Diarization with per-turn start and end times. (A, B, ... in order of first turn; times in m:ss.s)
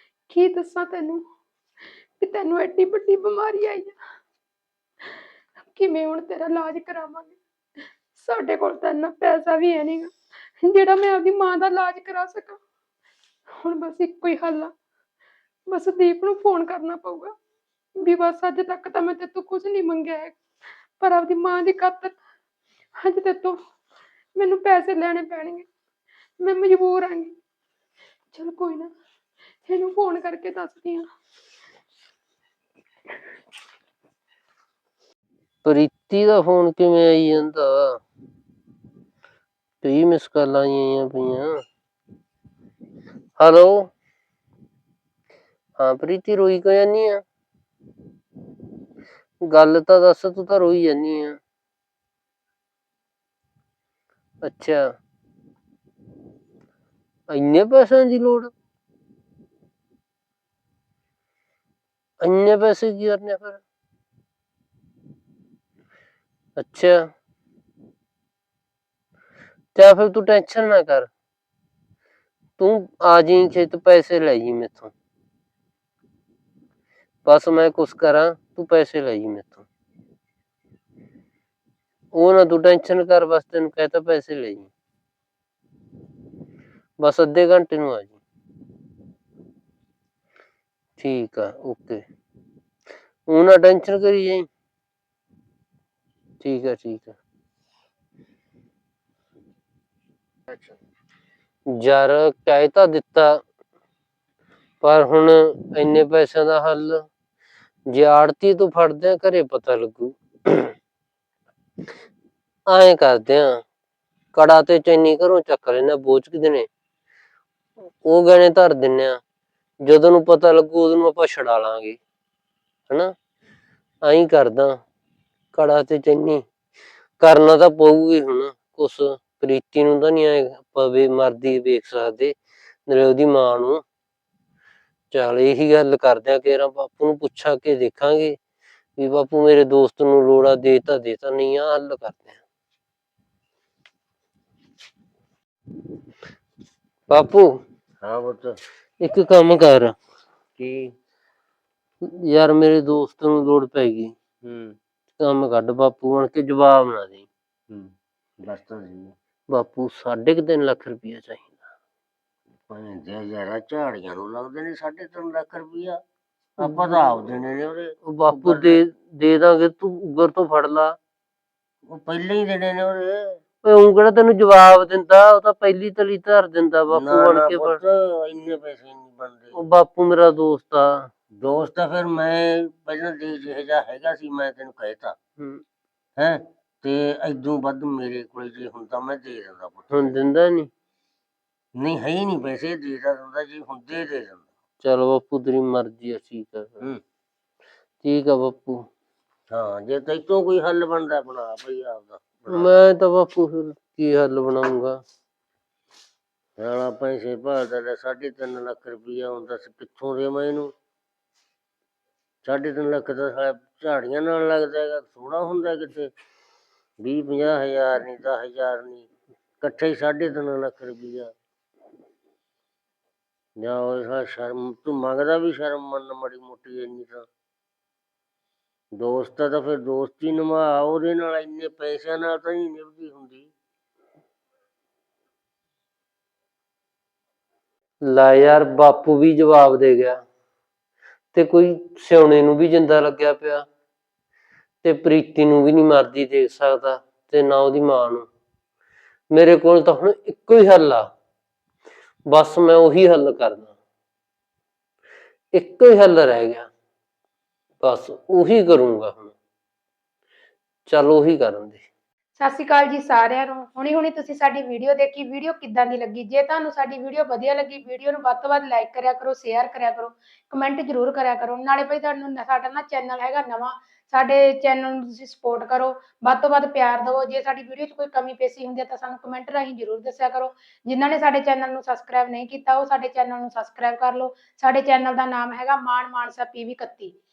0:00.3-0:01.2 A
0:02.2-0:04.0 A
0:05.7-0:07.4 A
0:08.2-0:12.6 A
0:13.6-0:14.7 A
0:15.7-0:17.3 A
0:18.0-0:20.4 A
0:21.0-0:22.2 A
0:23.0-0:23.6 A
0:24.4-0:25.7 A
0:26.4-0:27.4 A
0:28.3-0:28.9 A
0:29.7-0:31.1 A
0:35.6-0:38.0 B
0:39.8-0:41.5 B
0:43.4-0:43.9 B
0:45.8-0:47.2 B
0:49.5-0:51.4 B
0:54.4-0:54.8 B
0:57.3-0:58.5 B
1:02.2-1:03.6 B
1:06.6-1:07.0 B
1:09.8-1:11.1 B
1:12.6-1:14.9 B
1:17.3-1:19.7 B
1:22.1-1:24.7 B
1:27.0-1:28.2 B
1:31.0-1:32.0 B
1:33.3-1:34.5 B
1:36.4-1:37.2 B
1:41.8-1:43.4 B
1:44.8-1:47.0 B
1:47.9-1:50.7 B
1:52.7-1:53.6 B
1:54.4-1:56.7 B
1:58.0-1:59.2 B
1:59.8-2:02.0 B
2:04.1-2:04.8 B
2:05.5-2:06.4 B
2:07.2-2:12.4 B
2:12.9-2:13.8 B
2:15.1-2:18.4 B
2:19.0-2:22.4 B
2:27.1-2:27.5 B
2:28.0-2:28.6 C
2:29.0-2:30.0 B
2:30.6-2:30.9 C
2:32.1-2:34.1 B
2:34.4-2:34.8 C
2:35.2-2:37.3 B
2:37.7-2:39.2 C
2:39.5-2:41.6 B
2:42.7-2:46.0 C
2:46.6-2:48.8 C
2:46.6-2:47.3 B
2:48.1-2:51.0 B
2:51.9-2:53.4 C
2:53.6-2:57.8 B
2:56.9-2:59.6 C
2:59.6-3:01.1 B
3:01.4-3:05.2 C
3:06.2-3:10.1 C
3:09.9-3:10.7 B
3:11.8-3:14.4 C
3:14.8-3:16.9 B
3:18.0-3:18.8 B
3:19.5-3:22.8 C
3:22.5-3:25.0 B
3:26.6-3:30.7 C
3:32.4-3:36.1 C
3:37.0-3:39.1 C
3:39.6-3:41.3 C
3:43.6-3:47.3 C
3:49.0-3:53.5 C
3:58.1-4:00.2 B
4:01.3-4:03.6 B
4:04.8-4:08.3 B
4:09.3-4:11.1 B
4:12.3-4:13.7 B
4:15.5-4:16.7 B
4:17.8-4:19.3 B
4:20.9-4:21.8 B
4:22.4-4:47.2 A